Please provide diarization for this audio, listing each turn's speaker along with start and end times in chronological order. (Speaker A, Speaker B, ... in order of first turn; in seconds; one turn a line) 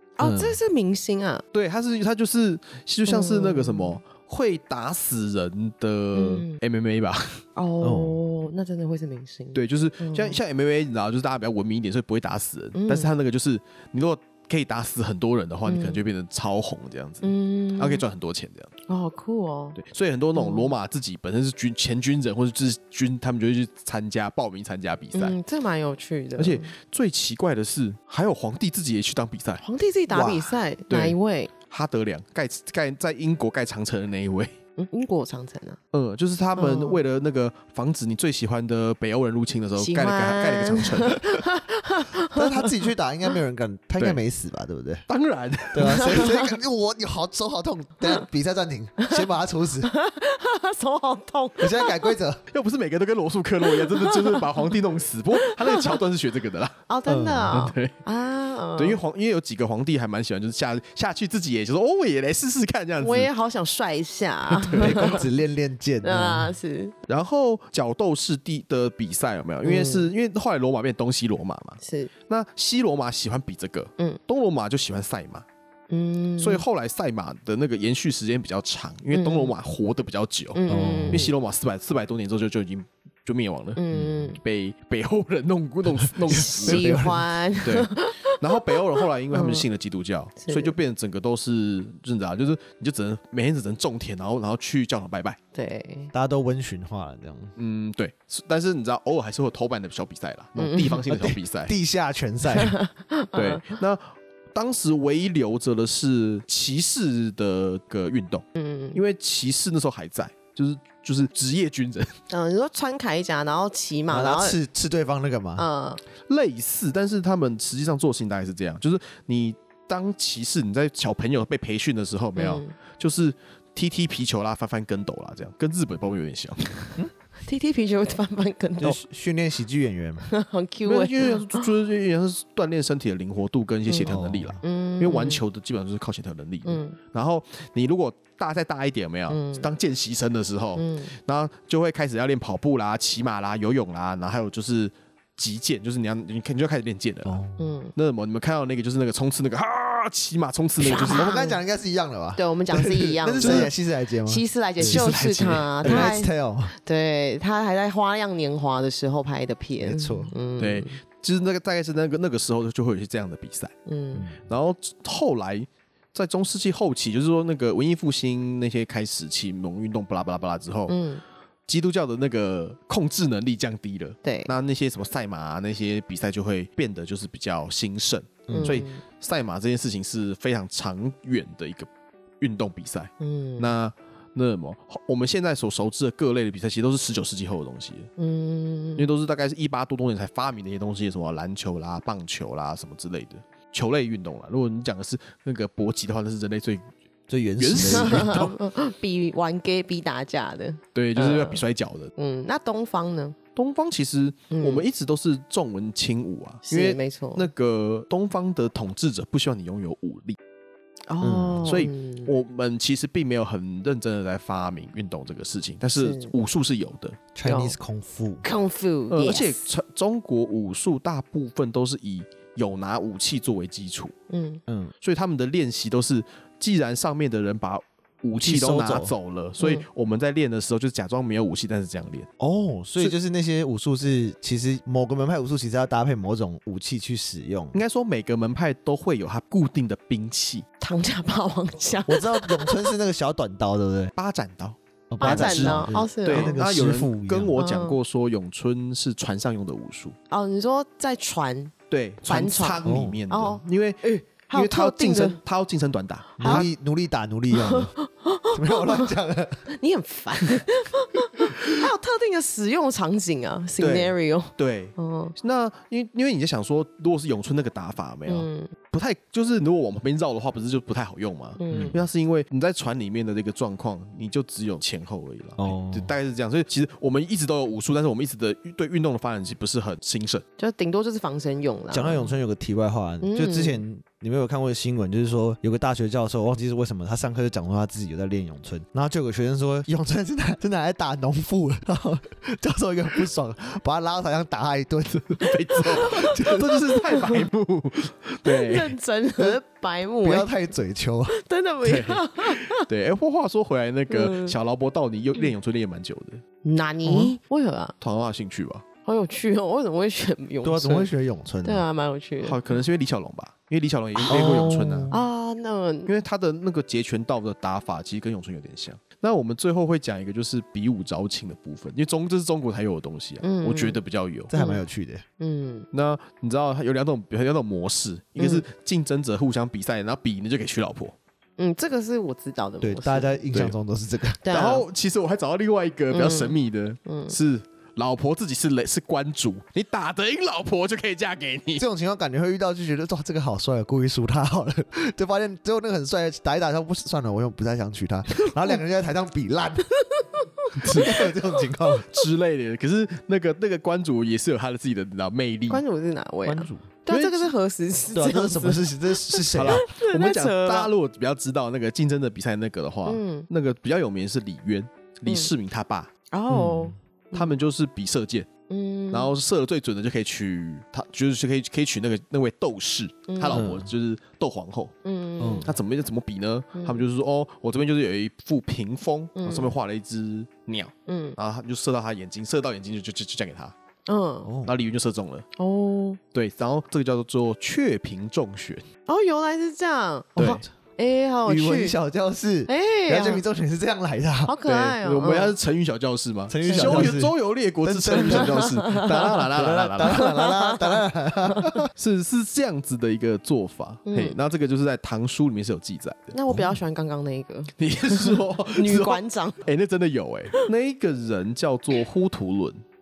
Speaker A: 0.2-1.4
Speaker B: 0.2-0.5
Speaker C: 1.5-7.4
Speaker A: 3.1-4.0
Speaker A: 6.1-6.6
Speaker A: 7.6-10.4
Speaker B: 7.8-8.2
Speaker C: 9.6-18.7
Speaker A: 12.8-13.1
Speaker A: 15.7-16.0
Speaker A: 17.2-18.0
Speaker A: 18.9-19.8
Speaker C: 19.8-25.4
Speaker A: 20.4-20.7
Speaker A: 25.1-26.7
Speaker C: 26.4-29.6
Speaker A: 29.6-31.5
Speaker C: 30.9-34.5
Speaker A: 34.8-35.8
Speaker C: 35.9-41.5
Speaker A: 36.6-37.0
Speaker A: 39.8-42.8
Speaker B: 42.3-45.0
Speaker C: 45.1-46.3
Speaker B: 45.7-49.9
Speaker A: 45.9-46.5
Speaker A: 49.8-52.1
Speaker B: 51.6-52.4
Speaker C: 52.5-56.8
Speaker A: 53.6-54.7
Speaker A: 55.4-56.0
Speaker A: 56.9-59.0
Speaker B: 57.1-57.6
Speaker C: 57.5-58.0
Speaker C: 58.8-63.3
Speaker A: 63.0-65.2
Speaker C: 64.5-65.2
Speaker B: 64.8-66.5
Speaker A: 66.0-67.0
Speaker C: 67.1-75.5
Speaker A: 69.6-70.1
Speaker A: 71.8-72.1
Speaker A: 75.9-76.6
Speaker C: 76.4-83.8
Speaker A: 79.1-79.5
Speaker A: 80.5-81.3
Speaker B: 80.7-81.3
Speaker A: 83.8-84.4
Speaker B: 83.9-84.4
Speaker C: 84.4-87.0
Speaker A: 86.3-89.7
Speaker B: 86.4-87.2
Speaker C: 87.6-95.4
Speaker A: 90.4-90.7
Speaker A: 95.5-96.1
Speaker B: 96.1-97.5
Speaker C: 97.6-101.7
Speaker A: 100.6-101.0
Speaker B: 101.1-102.8
Speaker A: 102.5-103.7
Speaker C: 103.3-104.0
Speaker C: 104.5-112.2
Speaker A: 108.6-109.0
Speaker A: 112.3-114.6
Speaker B: 114.1-115.7
Speaker A: 115.6-116.0
Speaker C: 116.3-127.0
Speaker A: 122.4-122.7
Speaker A: 127.5-129.0
Speaker B: 128.8-130.3
Speaker A: 130.2-131.7
Speaker C: 130.9-147.4
Speaker A: 133.9-135.4
Speaker B: 134.0-134.6
Speaker A: 136.7-137.0
Speaker A: 139.3-139.7
Speaker A: 140.8-141.1
Speaker B: 147.2-147.8
Speaker A: 147.6-147.9
Speaker C: 147.9-151.3
Speaker A: 150.8-151.6
Speaker B: 150.8-156.7
Speaker A: 152.4-153.7
Speaker C: 153.4-153.7
Speaker A: 154.3-161.0
Speaker C: 154.8-156.1
Speaker B: 159.8-160.3
Speaker C: 160.6-163.7
Speaker A: 163.9-164.3
Speaker B: 164.1-164.4
Speaker C: 164.5-171.0
Speaker A: 170.9-171.2
Speaker C: 171.7-181.9
Speaker A: 174.2-174.5
Speaker B: 178.5-178.8
Speaker A: 178.5-179.0
Speaker C: 182.4-188.1
Speaker A: 183.2-183.8
Speaker A: 188.2-189.1
Speaker C: 189.0-196.8
Speaker B: 197.3-198.4
Speaker C: 197.6-198.6
Speaker A: 197.8-201.6
Speaker C: 200.9-202.1
Speaker A: 202.2-203.4
Speaker C: 203.6-210.4
Speaker A: 204.5-204.8
Speaker A: 206.7-207.5
Speaker A: 211.1-212.3
Speaker B: 211.2-211.7
Speaker C: 211.6-217.2
Speaker A: 216.0-216.3
Speaker B: 217.3-218.4
Speaker A: 217.5-217.8
Speaker A: 218.4-219.7
Speaker C: 219.1-224.1
Speaker A: 224.3-224.6
Speaker B: 224.7-224.9
Speaker C: 225.0-232.3
Speaker B: 228.4-229.2
Speaker A: 229.6-229.8
Speaker B: 232.4-237.8
Speaker C: 237.7-240.7
Speaker A: 240.8-242.9
Speaker B: 242.1-244.1
Speaker C: 244.2-250.2
Speaker B: 245.1-247.5
Speaker A: 245.2-246.6
Speaker A: 247.6-248.0
Speaker A: 250.3-251.7
Speaker C: 251.9-256.7
Speaker A: 252.3-255.4
Speaker B: 252.8-253.2
Speaker A: 256.4-256.6
Speaker B: 256.4-257.9
Speaker A: 257.5-259.1
Speaker B: 258.5-259.6
Speaker A: 259.7-265.4
Speaker C: 263.8-280.4
Speaker A: 268.3-268.7
Speaker A: 271.6-272.0
Speaker B: 271.7-272.0
Speaker B: 275.6-276.1
Speaker A: 280.6-282.3
Speaker B: 281.9-295.4
Speaker A: 283.2-283.8
Speaker C: 295.1-299.0
Speaker A: 295.9-297.4
Speaker A: 298.4-300.5
Speaker B: 300.2-301.4
Speaker A: 301.3-302.9
Speaker C: 301.8-306.4
Speaker A: 304.1-304.5
Speaker A: 306.6-307.9
Speaker B: 307.1-307.4
Speaker C: 308.0-308.8
Speaker A: 309.1-311.1
Speaker B: 310.6-311.9
Speaker A: 311.6-312.6
Speaker C: 312.4-315.1
Speaker B: 314.3-315.2
Speaker A: 315.1-316.1
Speaker C: 316.1-324.5
Speaker A: 323.4-324.0
Speaker B: 324.5-325.2
Speaker A: 324.6-324.8
Speaker A: 325.4-325.9
Speaker C: 325.9-331.2
Speaker A: 328.4-328.6
Speaker A: 331.6-333.4
Speaker B: 332.8-334.4
Speaker A: 334.4-334.9
Speaker C: 334.5-341.9
Speaker A: 336.1-337.4
Speaker B: 341.8-349.9
Speaker A: 348.4-348.8
Speaker A: 350.0-351.3
Speaker C: 350.8-351.3
Speaker B: 350.9-352.1
Speaker C: 352.1-355.8
Speaker A: 355.7-360.9
Speaker B: 356.4-356.9
Speaker C: 357.1-357.5
Speaker B: 358.1-359.8
Speaker C: 359.5-366.1
Speaker A: 363.1-363.5
Speaker A: 365.3-365.5
Speaker A: 366.3-367.5
Speaker B: 366.5-366.9
Speaker C: 367.3-368.5
Speaker A: 368.7-369.3
Speaker C: 369.1-374.9
Speaker A: 373.3-373.7
Speaker B: 373.5-373.9
Speaker A: 375.1-375.7
Speaker B: 375.4-375.7
Speaker C: 375.6-383.7
Speaker A: 376.8-377.0
Speaker A: 379.4-379.7
Speaker A: 381.1-381.4
Speaker A: 384.1-384.5
Speaker B: 384.4-384.7
Speaker C: 384.6-385.5
Speaker A: 385.6-386.2
Speaker C: 386.3-388.8
Speaker A: 389.1-392.0
Speaker C: 390.4-390.6
Speaker B: 391.5-394.6
Speaker A: 392.7-393.4
Speaker A: 394.4-395.5
Speaker C: 394.7-400.3
Speaker B: 396.5-398.6
Speaker A: 396.6-397.1
Speaker A: 398.2-399.5
Speaker B: 399.5-401.9
Speaker A: 400.0-401.8
Speaker C: 402.0-406.4
Speaker A: 404.1-404.4
Speaker A: 406.3-409.6
Speaker B: 406.5-406.8
Speaker C: 407.8-412.8